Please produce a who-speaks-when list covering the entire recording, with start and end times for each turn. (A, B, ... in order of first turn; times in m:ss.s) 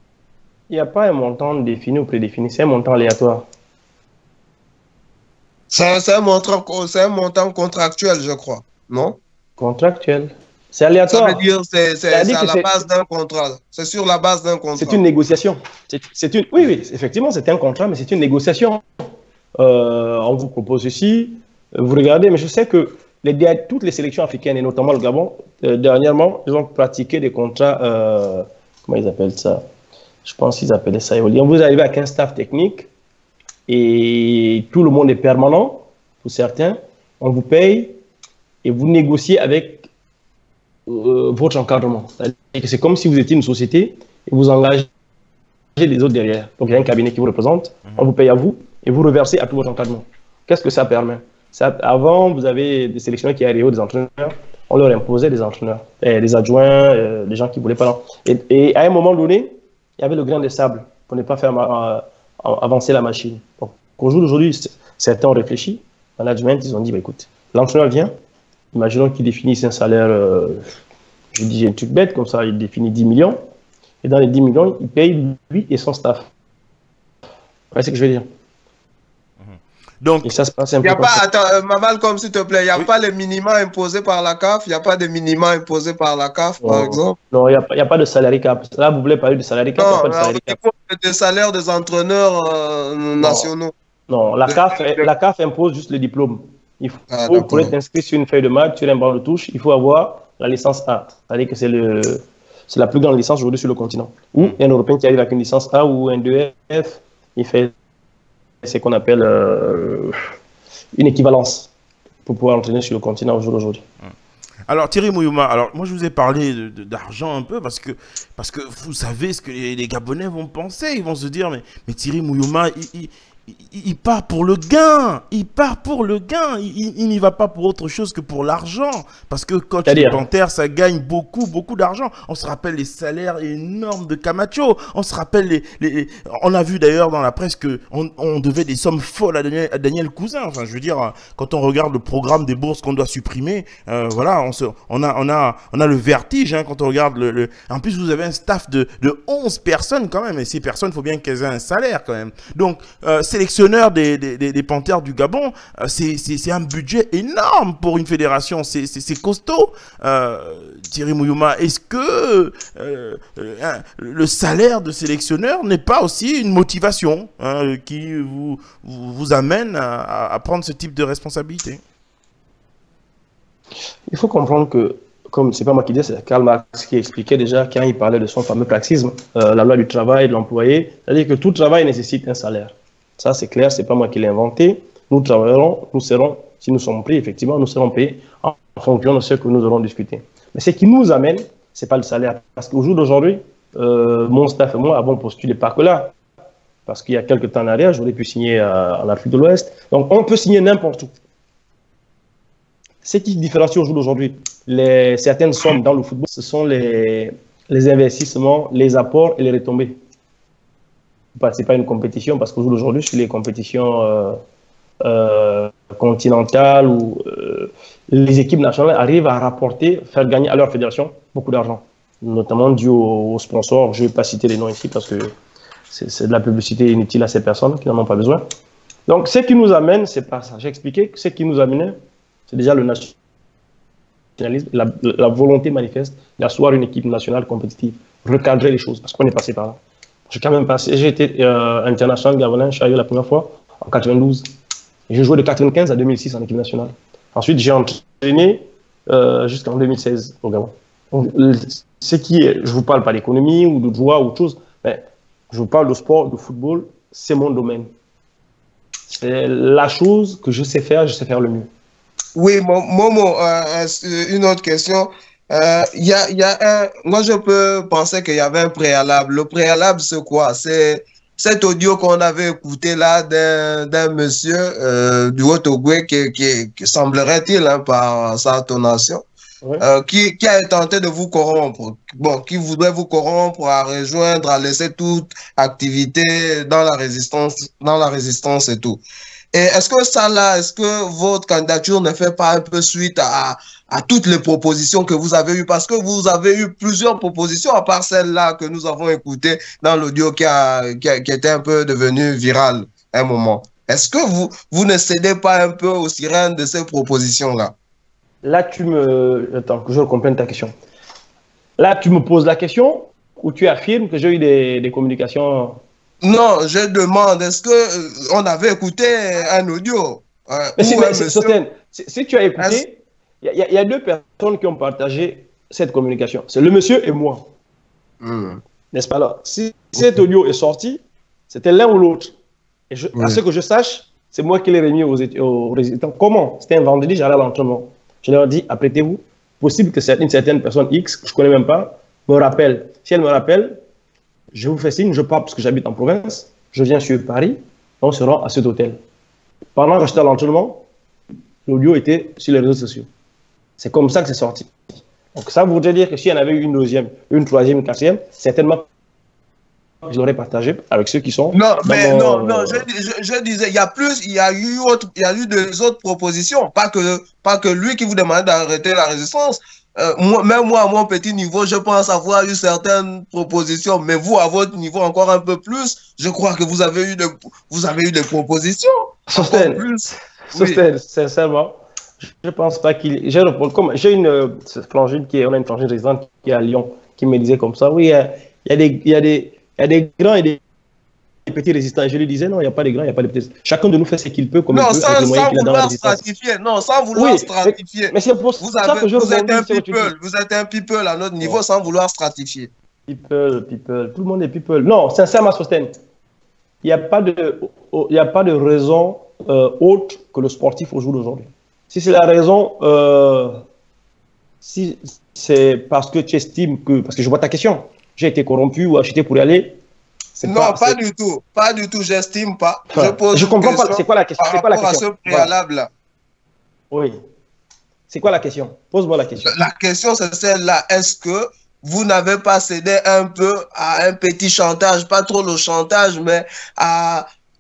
0:00.7-0:03.5 A
0:05.7-0:09.2 B
0:09.6-0:11.4 A
0:11.1-0:15.0 B
0:12.1-0:12.7 A
0:14.8-0:18.8 A
0:19.6-0:29.6 A
0:30.2-0:32.9 A
0:33.7-0:38.0 A
0:38.6-0:39.9 A
0:40.9-0:44.9 A
0:45.8-1:08.1 A
1:08.7-1:10.8 A
1:11.3-1:13.4 A
1:14.0-1:16.3 A
1:17.7-1:18.3 A
1:19.4-1:20.3 C
1:20.2-1:21.2 A
1:20.8-1:27.2 B
1:26.6-1:30.6 A
1:29.8-1:33.7 B
1:33.2-1:33.5 A
1:34.1-1:47.7 A
1:34.4-1:35.1 B
1:37.1-1:37.7 B
1:48.6-1:50.2 A
1:51.0-1:51.7 A
1:52.3-1:53.8 A
1:54.7-2:51.8 C
2:09.9-2:10.2 A
2:54.1-3:16.2 A
3:16.9-3:21.1 A
3:23.0-3:30.0 A
3:31.4-3:34.4 A
3:35.0-3:45.3 A
3:45.9-3:48.4 A
3:49.1-3:52.0 A
3:52.5-3:53.1 A
3:54.4-4:04.4 A
4:05.1-4:17.9 A
4:19.1-4:21.7 A
4:22.4-4:39.2 B
4:39.8-4:49.0 B
4:49.5-5:07.7 B
5:08.4-5:10.7 A
5:11.8-5:15.8 A
5:16.2-5:21.6 B
5:20.8-5:27.4 A
5:28.2-5:28.6 B
5:28.9-5:32.3 A
5:32.9-5:43.8 A
5:44.5-5:49.0 A
5:49.7-5:50.8 A
5:51.7-5:53.1 A
5:53.8-5:54.7 A
5:55.3-5:58.9 A
6:00.0-6:02.8 A
6:01.5-6:20.8 B
6:19.3-6:19.8 A
6:20.5-6:30.6 A
6:31.5-6:36.2 A
6:34.7-6:42.7 B
6:37.1-6:40.1 A
6:43.1-6:45.9 A
6:46.8-6:53.6 A
6:54.6-6:59.8 A
7:00.4-7:01.0 A
7:00.4-7:05.9 B
7:02.9-7:05.5 A
7:06.9-7:07.2 A
7:08.1-7:09.6 A
7:09.4-7:17.3 B